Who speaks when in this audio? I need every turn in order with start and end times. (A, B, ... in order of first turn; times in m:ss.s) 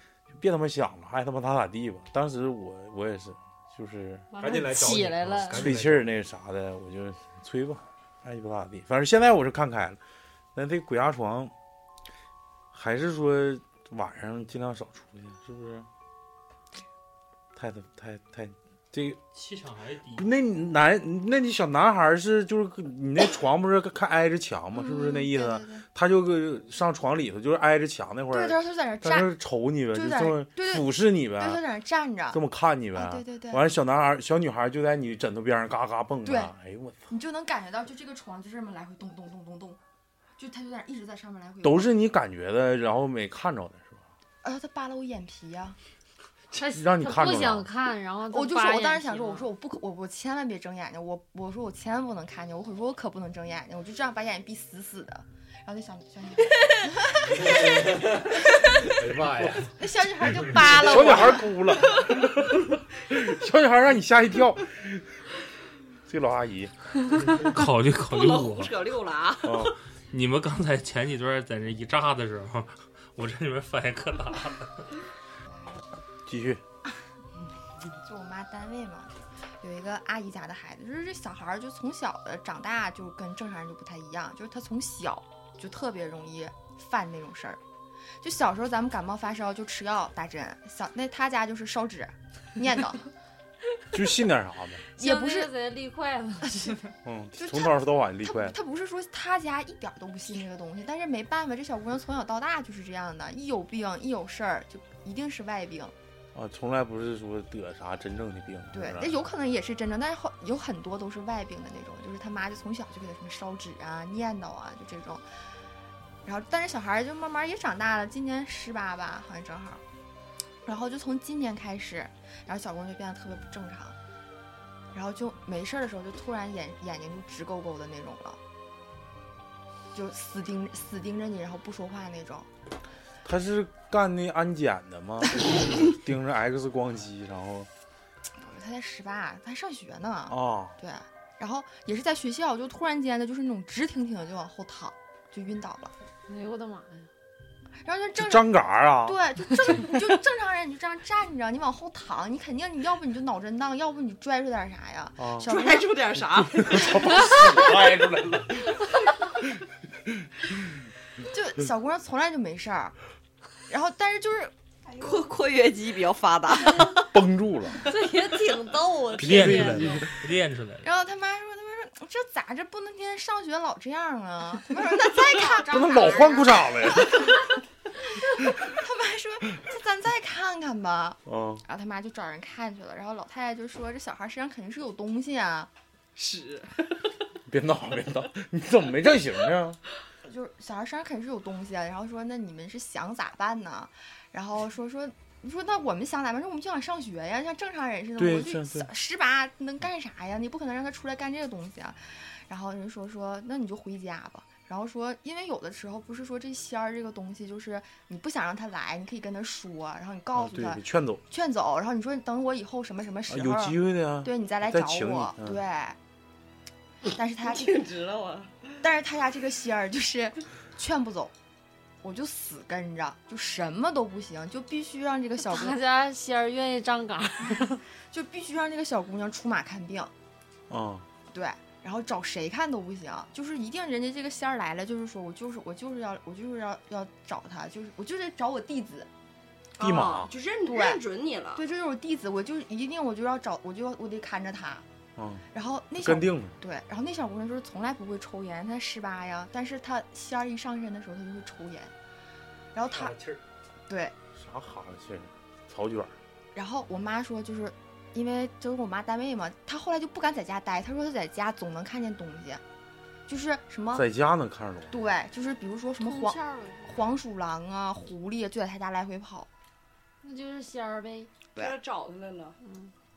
0:00.4-0:04.3 A
0:04.3-0:05.7 B
0:04.4-0:06.1 C
0:05.5-0:10.0 A
0:10.6-0:11.5 A
0:12.7-0:15.9 A
0:17.6-0:19.2 A
0:19.3-0:20.3 D
0:20.2-0:31.6 A
0:24.7-0:25.9 E
0:28.3-0:29.3 E
0:29.9-0:32.4 E
0:32.3-0:37.0 A
0:32.9-0:33.6 E
0:36.2-0:36.5 E
0:37.1-0:39.8 E
0:40.4-0:41.9 E
0:41.6-0:44.0 A
0:44.4-0:45.8 E
0:46.5-0:49.5 B
0:46.6-0:47.7 A
0:48.3-0:58.2 E
0:57.4-0:59.8 C
0:59.8-1:01.5 E
1:00.7-1:04.9 A
1:06.1-1:06.7 A
1:07.2-1:08.8 D
1:08.1-1:09.7 F
1:09.4-1:09.8 A
1:10.1-1:14.8 D
1:15.5-1:15.8 E
1:16.3-1:16.6 A
1:18.0-1:27.6 E
1:28.2-1:33.0 E
1:33.9-1:34.9 A
1:35.0-1:36.9 B
1:35.0-1:35.5 E
1:37.0-1:38.6 A
1:37.4-1:45.9 E
1:46.4-1:49.2 A
1:48.7-1:55.3 E
1:56.2-1:59.8 E
2:00.6-2:04.0 E
2:04.9-2:08.4 E
2:09.9-2:12.5 E
2:13.2-2:17.7 A
2:18.4-2:25.9 E
2:20.3-2:20.8 A
2:26.3-2:27.1 B
2:27.8-2:35.9 E
2:28.2-2:29.8 A
2:35.2-2:35.5 A
2:35.4-2:37.4 F
2:36.4-2:38.9 A
2:41.2-2:43.0 E
2:43.7-2:44.5 E
2:45.0-2:47.1 F
2:47.1-2:47.9 A
2:47.8-2:50.1 B
2:48.7-2:49.2 F
2:49.2-2:50.9 D
2:49.2-2:50.1 A
2:50.8-3:05.7 E
2:55.6-2:57.5 A
3:01.3-3:01.6 A
3:06.2-3:06.9 F
3:07.5-3:09.8 A
3:10.2-3:36.0 E
3:18.2-3:18.9 A
3:30.4-3:31.2 A
3:33.3-3:35.6 A
3:37.1-3:37.9 E
3:37.4-3:38.8 F
3:38.8-3:41.3 E
3:42.0-3:45.8 E
3:45.4-3:47.8 B
3:48.0-3:50.1 E
3:50.7-3:51.1 A
3:51.3-3:59.1 E
3:59.8-4:01.6 F
3:59.8-4:00.3 A
4:00.7-4:01.0 E
4:01.5-4:04.9 E
4:05.2-4:05.4 A
4:05.5-4:11.9 E
4:06.0-4:06.5 A
4:12.7-4:13.2 E
4:13.1-4:13.4 C
4:13.9-4:14.2 E
4:14.4-4:16.2 A
4:16.6-4:22.6 E
4:23.3-4:24.1 E
4:23.9-4:24.9 A
4:24.9-4:29.5 E
4:30.2-4:31.3 B
4:31.6-4:32.6 F
4:32.6-4:32.9 B